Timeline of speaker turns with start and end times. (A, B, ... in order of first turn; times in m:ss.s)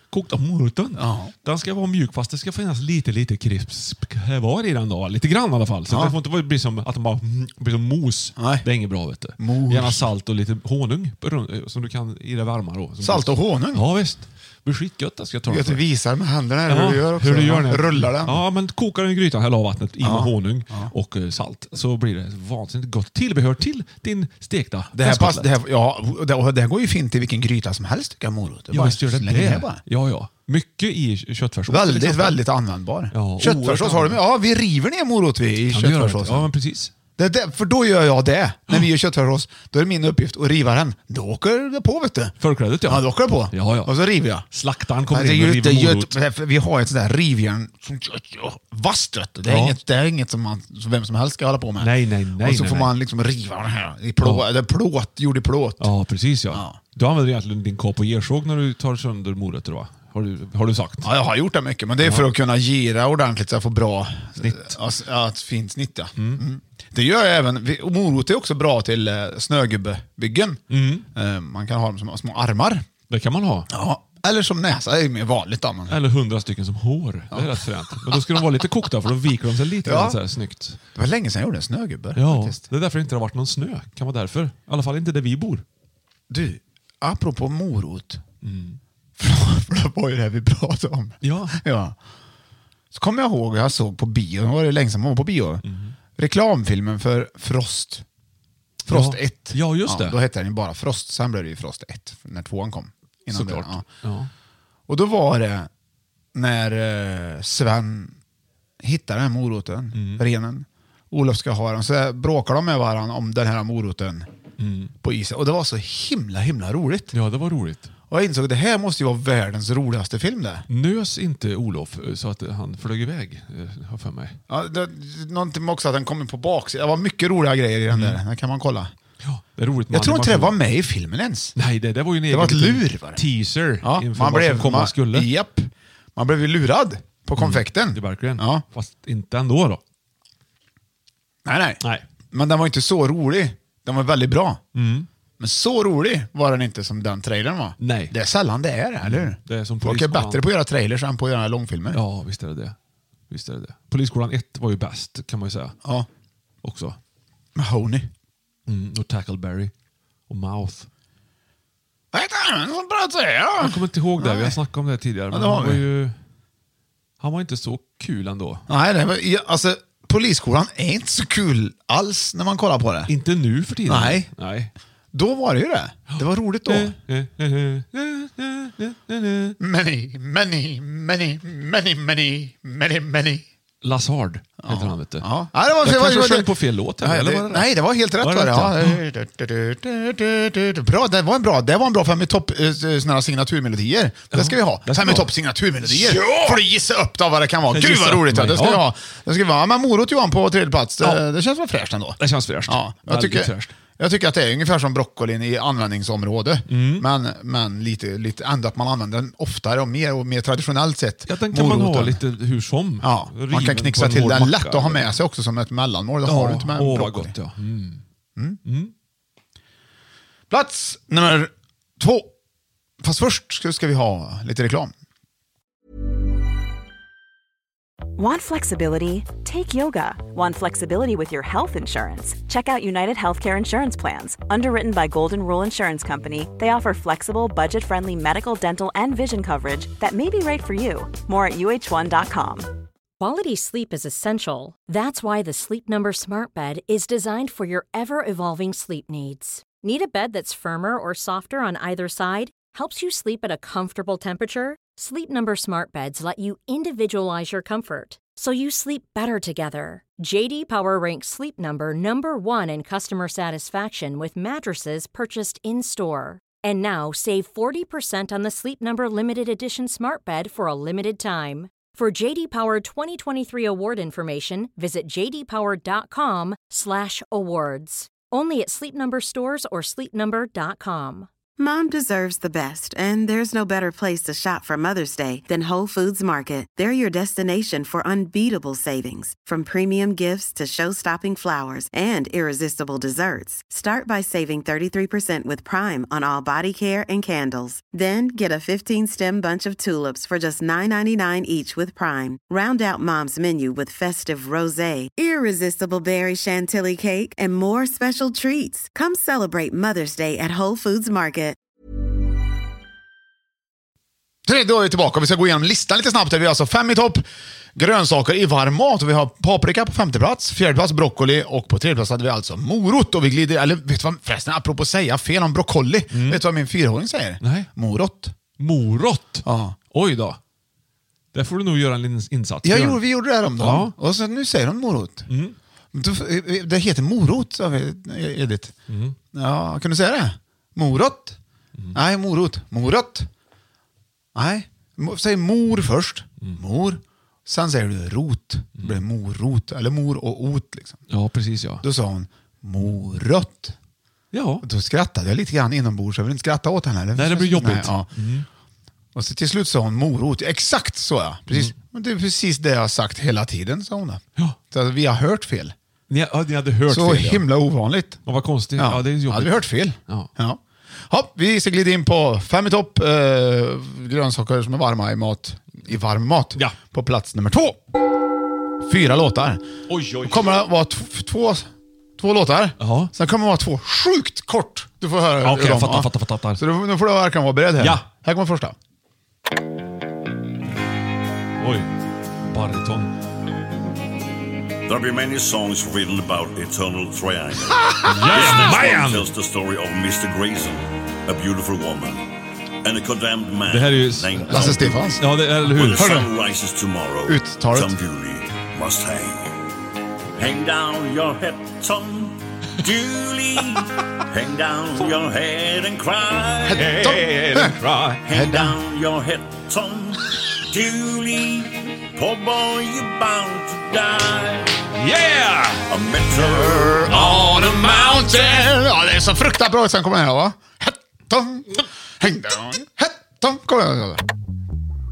0:00.1-0:15.8 A
0:01.0-0:01.3 B
0:05.9-0:06.2 B
0:08.4-0:08.7 B
0:09.4-0:10.1 B
0:13.0-0:13.8 B
0:15.5-0:18.4 B
0:16.7-0:25.5 A
0:20.0-0:20.9 B
0:24.9-0:29.8 B
0:28.7-0:32.4 A
0:31.7-0:36.5 B
0:33.1-0:34.2 A
0:35.7-0:36.9 A
0:37.2-0:44.5 B
0:42.4-0:43.9 A
0:44.5-0:46.2 A
0:45.1-0:55.9 B
0:49.5-0:49.8 A
0:51.8-0:52.9 A
0:55.8-1:01.1 A
1:01.0-1:10.6 B
1:02.0-1:02.3 A
1:04.4-1:04.8 A
1:06.2-1:06.4 A
1:10.7-1:11.1 A
1:11.1-1:12.9 B
1:13.1-1:13.7 A
1:13.7-1:16.0 B
1:15.9-1:20.8 A
1:17.3-1:18.2 B
1:19.8-1:20.2 B
1:21.0-1:22.6 B
1:22.2-1:25.6 A
1:26.3-1:28.2 B
1:28.4-1:28.8 A
1:29.2-1:32.0 B
1:31.2-1:31.6 A
1:32.9-1:35.6 B
1:35.6-1:36.0 A
1:36.2-1:38.0 B
1:38.8-1:43.8 B
1:38.9-1:40.2 A
1:43.3-1:44.3 A
1:44.9-1:45.7 B
1:46.4-1:48.2 B
1:48.8-1:54.3 B
1:49.9-1:50.2 A
1:54.6-1:54.9 A
1:55.0-1:57.1 B
1:57.1-1:57.9 A
1:58.1-2:00.6 B
2:00.7-2:04.4 A
2:04.5-2:08.9 B
2:07.9-2:08.2 A
2:09.2-2:10.6 A
2:09.9-2:11.6 B
2:11.6-2:15.3 A
2:12.3-2:13.2 B
2:13.8-2:18.6 B
2:17.4-2:19.8 A
2:21.4-2:24.6 B
2:24.8-2:25.1 A
2:25.4-2:32.0 B
2:27.8-2:28.1 A
2:29.0-2:30.4 A
2:31.9-2:32.8 A
2:33.3-2:35.8 A
2:36.6-2:37.0 A
2:37.6-2:38.1 B
2:38.7-2:39.7 A
2:40.3-2:40.9 A
2:42.1-2:44.6 B
2:43.6-2:46.2 A
2:45.3-2:45.8 B
2:47.2-2:48.6 A
2:48.7-2:53.1 B
2:53.1-2:54.7 A
2:53.9-2:54.3 B
2:55.1-2:57.0 B
2:56.1-2:59.6 A
2:59.6-3:03.4 B
3:03.8-3:05.3 A
3:04.6-3:32.2 B
3:05.8-3:09.0 A
3:14.3-3:15.3 A
3:15.8-3:16.6 A
3:17.7-3:18.8 A
3:22.2-3:23.7 A
3:26.7-3:27.1 A
3:31.3-3:35.1 A
3:33.0-3:37.3 B
3:36.2-3:38.0 A
3:38.7-3:38.9 A
3:40.5-3:42.3 B
3:43.0-3:44.9 B
3:48.2-4:02.7 C
4:03.2-4:41.3 D
4:41.6-5:11.6 E
5:14.5-5:28.4 B
5:26.1-5:26.4 A
5:27.4-5:27.7 A
5:28.6-5:30.4 A
5:29.4-5:29.8 B
5:31.3-5:33.0 A
5:32.6-5:35.3 B
5:33.6-5:33.9 A
5:35.3-5:35.6 A
5:35.9-5:38.8 B
5:38.9-5:39.2 A
5:39.3-5:41.4 B
5:42.0-5:43.3 B
5:44.4-5:51.0 B
5:51.1-5:51.8 A
5:51.8-5:53.8 B
5:54.3-5:54.6 A
5:54.6-5:58.1 B
5:57.2-5:58.5 A
5:59.2-6:05.7 B
6:06.1-6:07.4 A
6:06.9-6:08.2 B
6:08.3-6:10.3 A
6:08.8-6:17.8 B
6:18.8-6:19.6 B
6:19.9-6:20.6 A
6:20.2-6:28.8 B
6:22.8-6:23.1 A
6:25.4-6:26.6 A
6:27.8-6:28.1 A
6:31.6-6:31.9 A
6:32.5-6:33.1 A
6:34.9-6:42.3 F
6:38.0-6:38.8 B
6:38.0-6:39.3 A
6:42.8-6:49.5 F
6:43.7-6:46.1 A
6:44.5-6:45.2 B
6:45.9-6:46.3 B
6:47.3-6:48.0 B
6:50.4-6:56.8 F
6:56.7-6:57.8 B
6:56.8-6:58.2 A
6:58.2-7:04.7 F
6:58.3-6:58.8 B
7:05.0-7:05.9 A
7:05.9-7:08.6 F
7:06.3-7:14.2 B